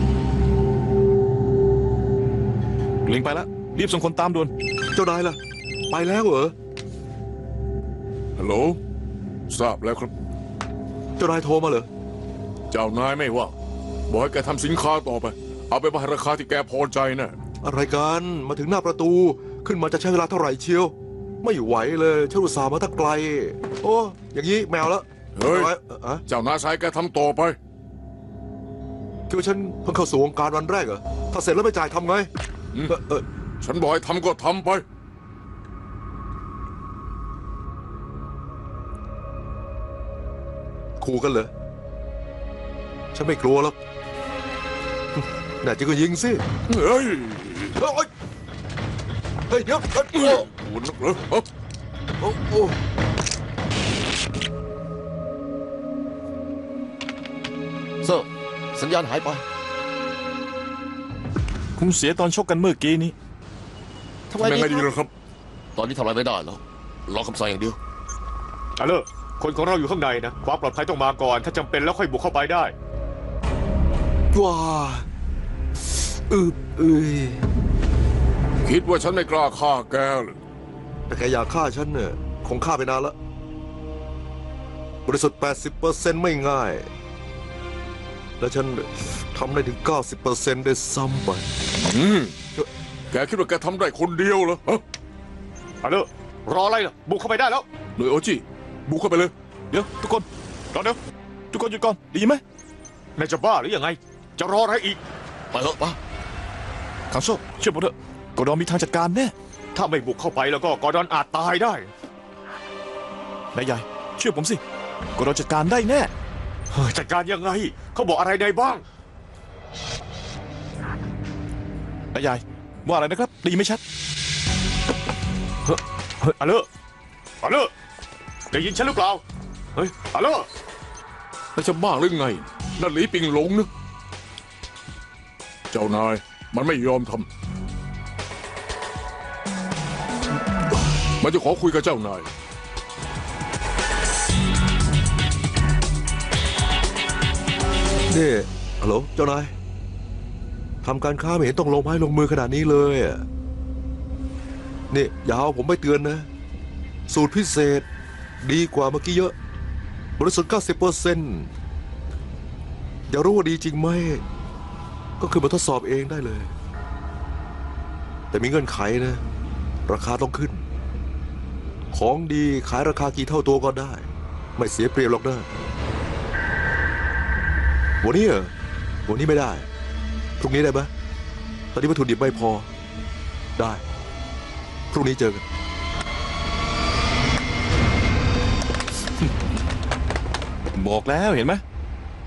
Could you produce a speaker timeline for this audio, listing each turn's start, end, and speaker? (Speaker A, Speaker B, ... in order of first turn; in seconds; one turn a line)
Speaker A: 3.0-4.5
Speaker B: 4.9-5.4
Speaker B: 5.9-6.5
Speaker C: 8.4-8.8
Speaker C: 9.5-10.1
Speaker B: 11.2-11.9
Speaker C: 12.7-13.5
Speaker C: 14.1-17.4
Speaker B: 17.6-26.2
Speaker C: 25.3-25.7
Speaker C: 26.3-27.6
Speaker B: 29.3-32.3
Speaker B: 32.9-33.2
Speaker C: 33.6-34.8
Speaker B: 41.0-41.5
Speaker B: 43.1-43.8
Speaker B: 45.6-46.4
Speaker C: 46.7-47.8
Speaker B: 47.8-48.1
Speaker B: 49.5-50.5
Speaker C: 50.1-51.5
Speaker B: 52.2-52.8
Speaker D: 58.0-59.4
Speaker A: 61.8-63.1
Speaker D: 64.3-64.9
Speaker C: 64.4-65.1
Speaker D: 65.8-67.8
Speaker E: 68.8-72.7
Speaker B: 74.3-75.0
Speaker B: 76.3-77.4
Speaker C: 78.6-80.4
Speaker B: 81.1-83.1
Speaker B: 85.0-86.9
Speaker B: 88.4-91.5
Speaker C: 91.8-92.3
Speaker C: 93.1-94.8
Speaker E: 95.8-97.7
Speaker C: 98.0-99.3
Speaker A: 99.7-101.0
Speaker A: 101.5-102.4
Speaker E: 103.2-105.0
Speaker D: 105.5-106.0
Speaker A: 107.1-109.3
Speaker E: 109.7-111.9
Speaker A: 113.5-114.6
Speaker A: 115.2-116.1
Speaker E: 116.7-118.8
Speaker A: 122.1-123.8
Speaker E: 125.7-126.7
Speaker E: 127.4-127.7
Speaker E: 128.5-129.2
Speaker E: 129.7-130.5
Speaker C: 131.5-133.7
Speaker C: 135.7-137.3
Speaker C: 141.2-142.3
Speaker B: 148.1-149.5
Speaker B: 150.8-153.2
Speaker B: 154.9-156.3
Speaker B: 157.1-157.8
Speaker B: 158.4-159.3
Speaker B: 160.2-161.5
Speaker B: 163.1-164.2
Speaker B: 165.2-166.5
Speaker B: 168.3-169.2
Speaker B: 169.9-170.6
Speaker B: 171.9-175.5
Speaker B: 178.0-178.5
Speaker B: 179.1-179.7
Speaker B: 180.4-180.9
Speaker B: 181.7-182.7
Speaker B: 183.6-183.8
Speaker B: 184.9-185.4
Speaker A: 190.7-191.6